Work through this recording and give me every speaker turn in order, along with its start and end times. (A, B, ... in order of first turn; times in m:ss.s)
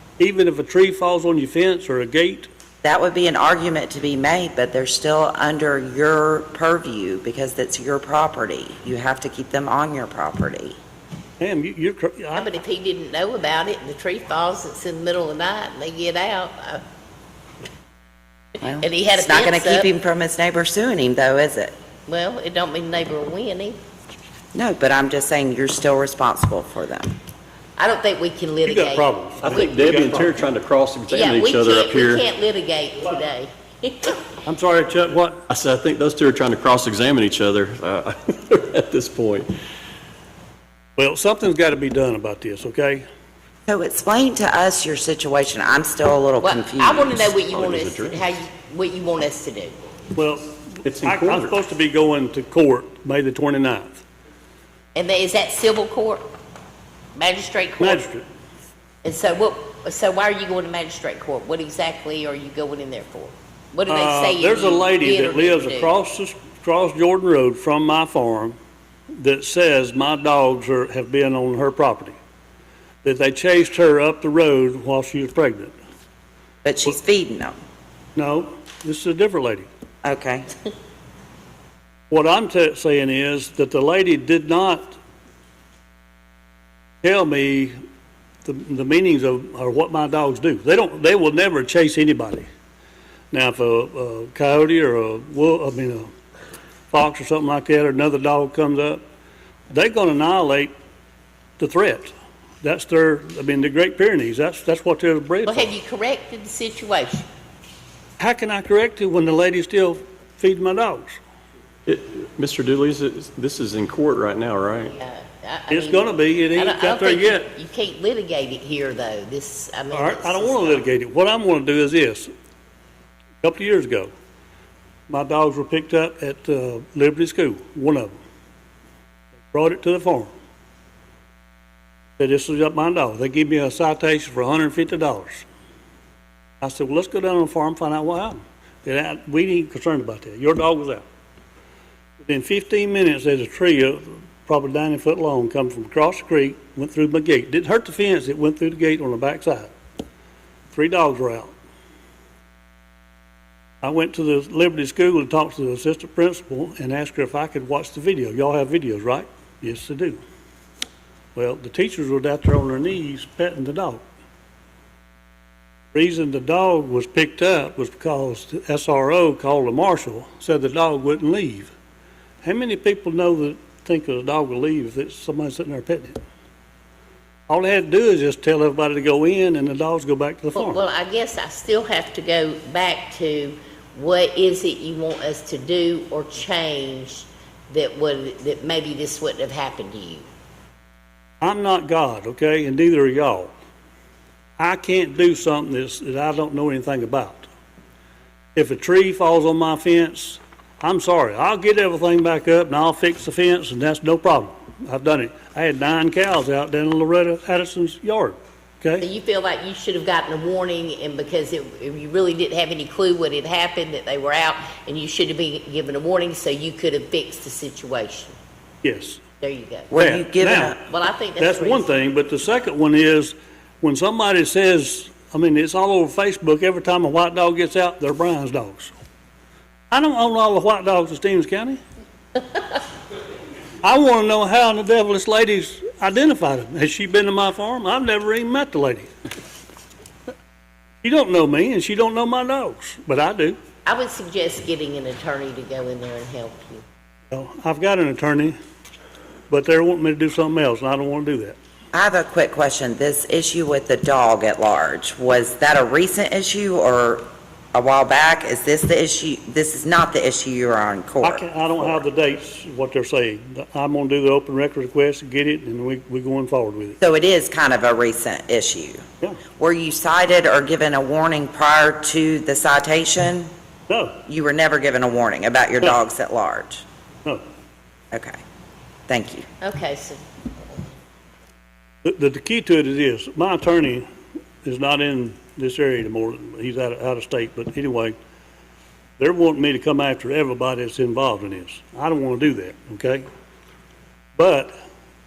0:00.2-0:02.5 A
0:02.8-0:10.8 B
0:11.4-0:12.5 A
0:12.4-0:16.8 C
0:18.6-0:21.8 B
0:18.8-0:19.9 C
0:22.1-0:23.8 C
0:24.5-0:27.2 B
0:27.8-0:29.1 C
0:28.6-0:30.5 A
0:29.4-0:32.2 D
0:31.1-0:34.3 C
0:34.5-0:35.4 A
0:35.5-0:39.5 D
0:41.0-0:43.1 A
0:43.7-0:47.3 B
0:46.4-0:49.8 C
0:47.2-0:48.3 D
0:50.2-0:54.0 A
0:50.8-0:51.6 D
0:55.0-0:56.2 C
0:57.2-0:58.0 C
0:57.8-0:58.2 A
0:59.0-1:06.0 C
1:03.9-1:08.6 A
1:09.2-1:12.2 A
1:13.0-1:15.7 A
1:16.6-1:17.6 B
1:18.2-1:19.7 A
1:20.0-1:20.5 B
1:22.1-1:25.0 A
1:27.0-1:27.7 A
1:28.4-1:32.5 A
1:33.3-1:36.1 A
1:36.9-1:39.0 A
1:39.7-1:40.7 A
1:41.6-1:45.7 A
1:45.5-1:47.3 C
1:48.2-1:51.2 A
1:51.9-1:54.9 D
1:54.9-2:00.9 C
1:55.7-1:57.5 A
1:59.9-2:02.3 A
2:03.4-2:04.1 A
2:05.1-2:08.1 A
2:09.4-2:10.4 A
2:12.2-2:15.4 A
2:16.6-2:21.0 A
2:22.2-2:29.7 A
2:30.7-2:31.5 A
2:33.8-2:40.2 A
2:41.4-2:44.0 A
2:45.9-2:51.7 A
2:52.4-2:56.2 A
2:57.5-3:00.8 A
3:00.6-3:10.3 C
3:11.4-3:13.5 A
3:14.6-3:17.5 A
3:18.6-3:29.1 A
3:29.0-3:38.4 C
3:38.8-3:39.2 A
3:39.4-3:39.9 C
3:39.9-3:40.8 B
3:39.9-3:40.8 A
3:40.9-3:41.9 C
3:41.4-3:48.9 A
3:49.9-3:51.8 A
3:53.8-3:59.1 A
4:01.0-4:03.6 A
4:03.9-4:06.8 C
4:07.3-4:08.6 A
4:09.5-4:11.6 A
4:11.9-4:22.0 B
4:21.2-4:27.0 A
4:27.0-4:29.1 B
4:29.6-4:33.5 B
4:33.9-4:34.2 A
4:34.3-4:36.8 B
4:38.1-4:38.4 B
4:39.1-4:39.5 B
4:39.6-4:40.2 C
4:42.0-4:44.1 A
4:44.6-4:48.1 A
4:49.2-4:53.2 A
4:54.4-4:54.8 A